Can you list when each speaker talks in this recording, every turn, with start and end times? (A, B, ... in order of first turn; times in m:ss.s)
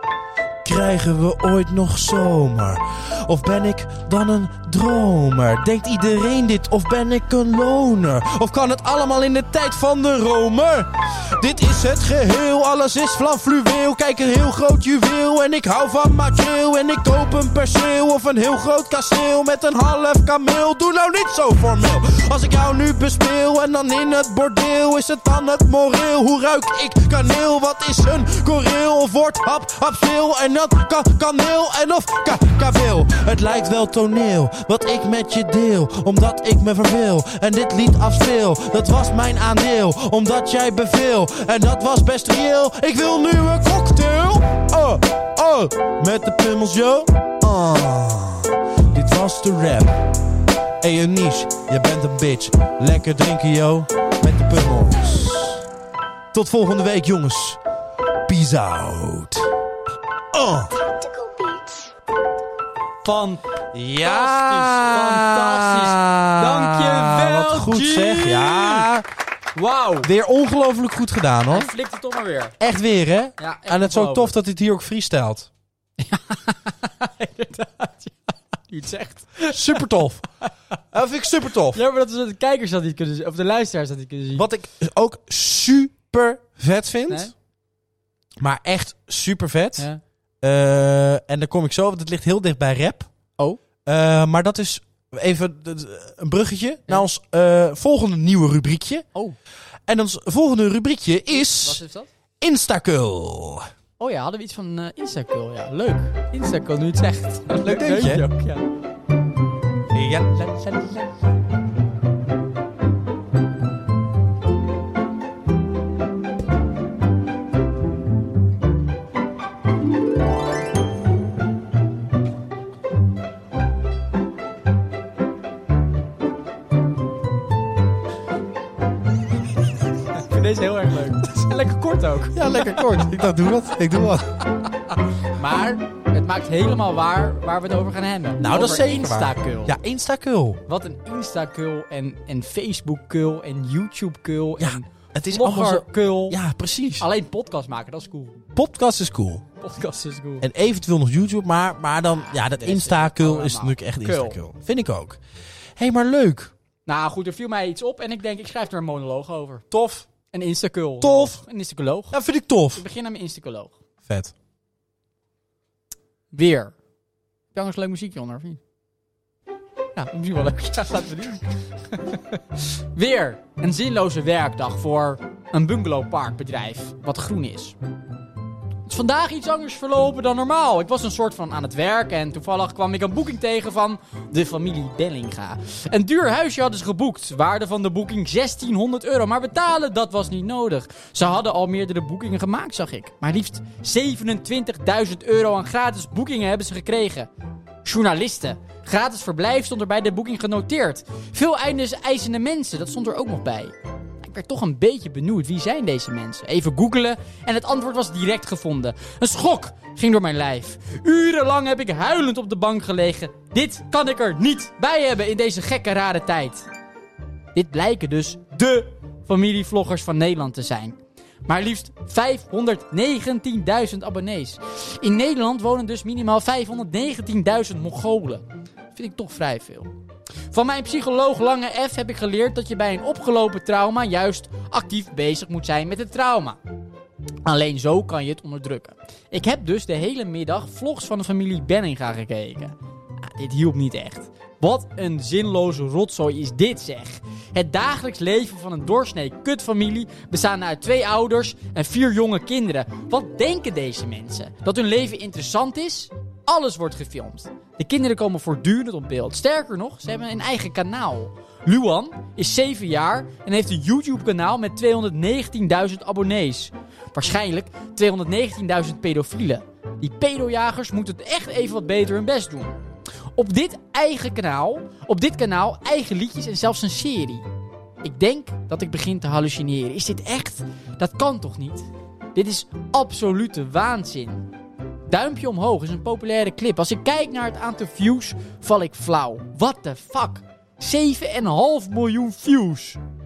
0:00.6-0:50.0 A
0:50.8-0:55.7 A
0:56.3-0:57.6 A
0:58.3-0:59.5 A
1:00.3-1:00.7 A
1:03.0-1:03.4 B
1:03.7-1:09.1 A
1:04.0-1:08.9 B
1:09.6-1:10.1 B
1:10.0-1:11.7 A
1:11.5-1:12.6 B
1:12.6-1:15.5 A
1:13.4-1:14.3 B
1:16.0-1:19.9 B
1:19.5-1:20.3 A
1:20.9-1:21.8 A
1:21.7-1:24.5 B
1:24.3-1:27.3 A
1:28.4-1:29.9 A
1:30.4-1:33.1 A
1:33.8-1:39.1 A
1:39.9-1:41.8 A
1:41.3-1:42.1 B
1:42.4-1:43.7 A
1:44.0-1:48.7 B
1:47.6-1:48.3 A
1:49.9-1:50.8 A
1:50.4-1:51.0 B
2:10.1-2:12.9 B
2:12.3-2:14.4 A
2:15.3-2:19.8 B
2:18.4-2:20.6 A
2:20.7-2:26.4 B
2:24.6-2:27.1 A
2:27.0-2:28.4 B
2:28.5-2:29.4 A
2:29.6-2:30.5 B
2:30.4-2:35.2 A
2:32.6-2:34.4 B
2:35.8-2:36.5 A
2:36.9-2:39.7 B
2:39.7-2:40.1 A
2:40.2-2:42.2 B
2:41.0-2:41.4 A
2:42.1-2:42.8 A
2:42.7-2:43.8 B
2:44.1-2:44.3 A
2:46.3-2:46.7 B
2:47.5-2:48.6 B
2:50.0-2:57.8 B
2:58.9-3:17.3 B
3:17.8-3:36.7 B
3:37.6-3:49.9 B
3:50.5-3:56.6 B
3:57.4-4:32.8 B
4:33.4-4:37.4 B
4:38.0-4:44.5 B
4:45.1-4:53.0 B